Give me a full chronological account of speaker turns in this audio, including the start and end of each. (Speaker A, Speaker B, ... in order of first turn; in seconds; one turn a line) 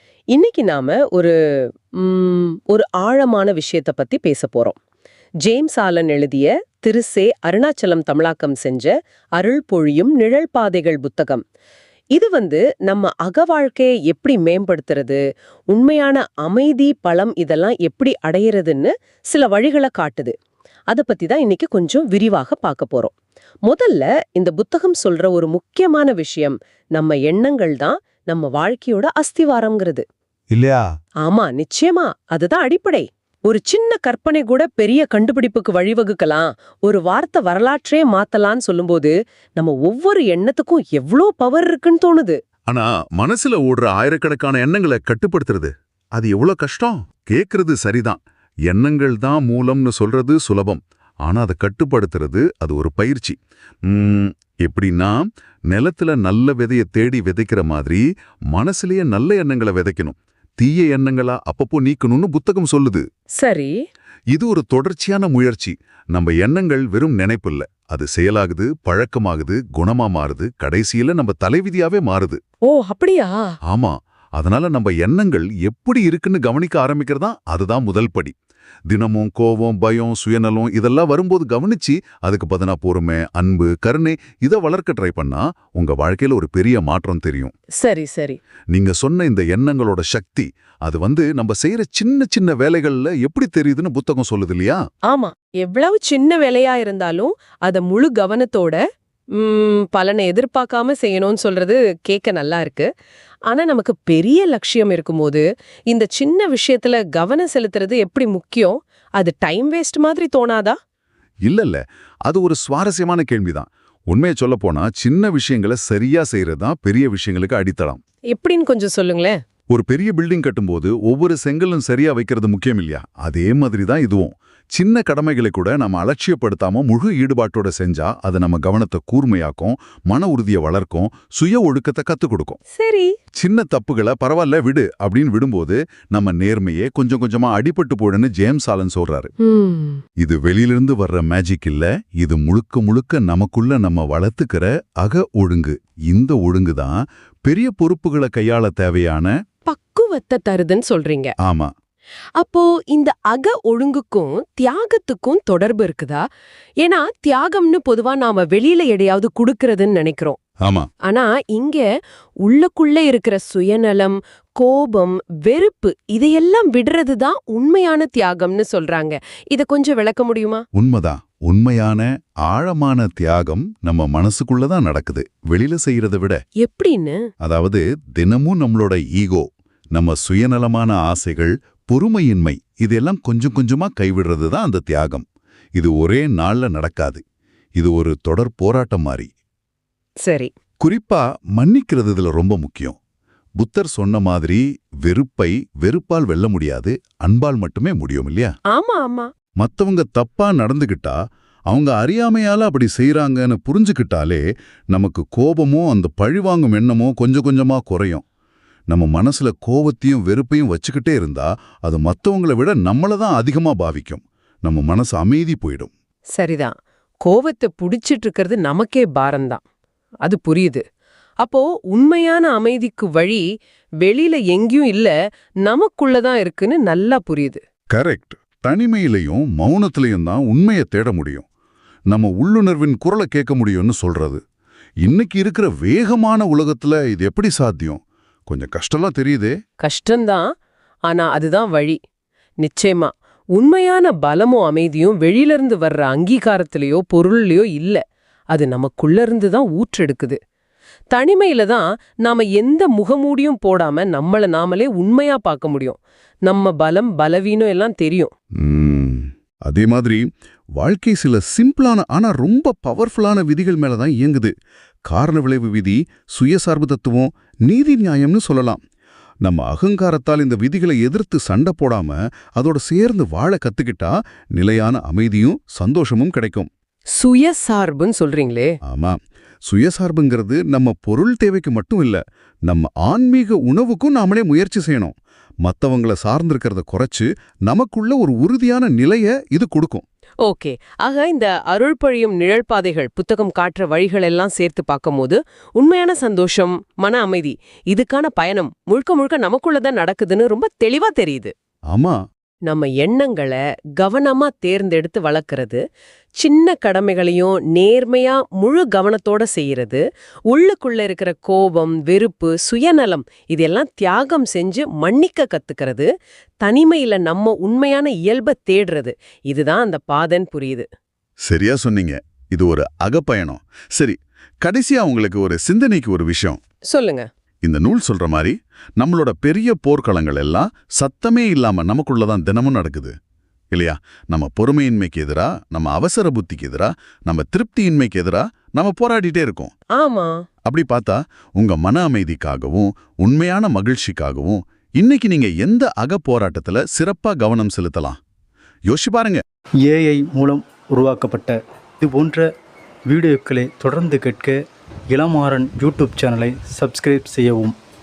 Speaker A: 0.3-4.8
Speaker A: 5.4-11.4
Speaker A: 12.1-15.2
Speaker A: 15.7-20.3
Speaker A: 20.9-23.1
Speaker A: 23.6-30.0
Speaker B: 30.5-30.9
Speaker A: 31.2-42.4
Speaker B: 42.7-63.0
Speaker A: 63.4-63.7
Speaker B: 64.3-72.4
Speaker A: 72.7-73.5
Speaker B: 73.7-78.3
Speaker B: 78.9-87.5
Speaker A: 87.8-88.4
Speaker B: 88.7-94.8
Speaker A: 95.1-98.8
Speaker A: 99.3-102.9
Speaker A: 103.5-110.8
Speaker B: 111.4-118.0
Speaker A: 118.3-119.4
Speaker B: 119.7-132.6
Speaker A: 132.7-133.1
Speaker B: 133.4-139.3
Speaker A: 139.4-140.0
Speaker B: 140.2-149.3
Speaker A: 149.7-151.3
Speaker B: 151.4-151.7
Speaker A: 152.4-156.2
Speaker A: 156.8-160.4
Speaker B: 160.6-160.9
Speaker A: 161.0-161.8
Speaker A: 162.4-170.6
Speaker B: 170.7-176.4
Speaker A: 176.6-177.2
Speaker B: 177.4-185.2
Speaker B: 185.8-187.2
Speaker B: 187.8-189.3
Speaker A: 190.2-190.5
Speaker B: 190.8-193.0
Speaker B: 193.6-198.5
Speaker A: 198.7-199.3
Speaker B: 199.6-208.2
Speaker B: 208.9-215.9
Speaker A: 216.3-219.6
Speaker A: 220.2-220.8
Speaker A: 221.4-223.4
Speaker A: 224.0-225.1
Speaker A: 225.6-227.6
Speaker B: 227.9-231.4
Speaker B: 232.1-234.4
Speaker B: 235.0-239.5
Speaker A: 239.8-240.4
Speaker A: 241.1-242.0
Speaker A: 242.6-250.4
Speaker A: 251.1-258.3
Speaker B: 258.6-260.2
Speaker B: 260.8-264.5
Speaker B: 265.1-268.8
Speaker B: 269.4-276.7
Speaker A: 277.1-278.7
Speaker B: 278.8-290.0
Speaker A: 290.4-301.5
Speaker B: 301.9-302.2
Speaker A: 302.7-305.8
Speaker A: 306.4-316.1
Speaker A: 316.6-320.9
Speaker B: 321.4-326.6
Speaker A: 326.9-327.2
Speaker B: 327.6-333.1
Speaker B: 333.7-339.7
Speaker A: 339.9-340.3
Speaker B: 340.6-348.2
Speaker B: 348.9-349.4
Speaker C: 349.8-352.5
Speaker C: 353.1-357.8